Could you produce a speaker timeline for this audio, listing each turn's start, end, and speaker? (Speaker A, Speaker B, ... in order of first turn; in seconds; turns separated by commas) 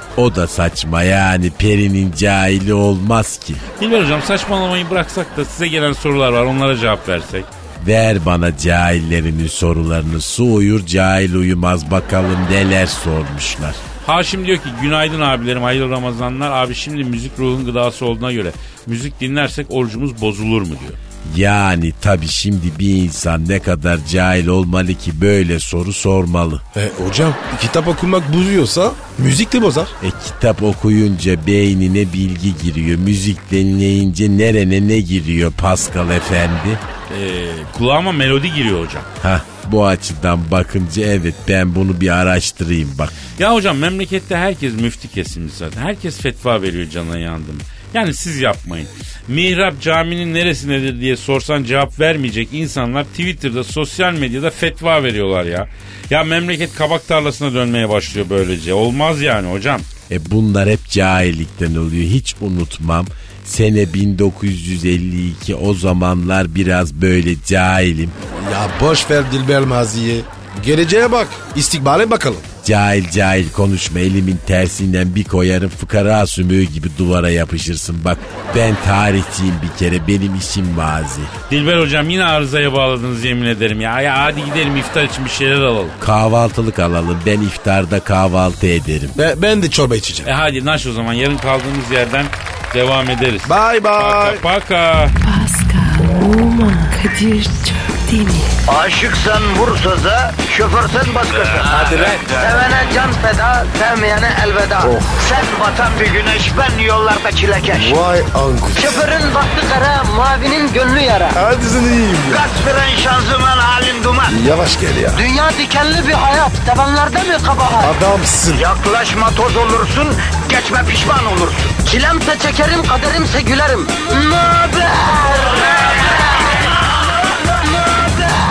Speaker A: 0.1-3.6, Speaker B: 3.8-7.5, Speaker A: 7.8-13.8, Speaker B: 14.0-21.0, Speaker A: 21.2-26.6, Speaker C: 26.7-29.9, Speaker A: 30.0-36.8, Speaker B: 37.1-39.1, Speaker A: 39.2-43.2, Speaker B: 43.3-59.9, Speaker A: 60.1-68.2, Speaker C: 68.3-72.5, Speaker A: 72.6-81.3, Speaker B: 81.5-86.0, Speaker A: 86.0-89.1, Speaker C: 89.2-90.3, Speaker B: 90.2-95.2, Speaker C: 93.4-94.4, Speaker D: 95.2-98.5, Speaker E: 98.7-108.0, Speaker C: 101.6-102.4, Speaker C: 104.8-105.2, Speaker C: 107.7-109.0, Speaker E: 108.7-111.4, Speaker C: 111.3-112.4, Speaker E: 112.3-114.4, Speaker C: 114.3-115.2, Speaker E: 115.1-117.9, Speaker C: 117.8-118.6, Speaker E: 118.5-126.0, Speaker E: 128.0-128.3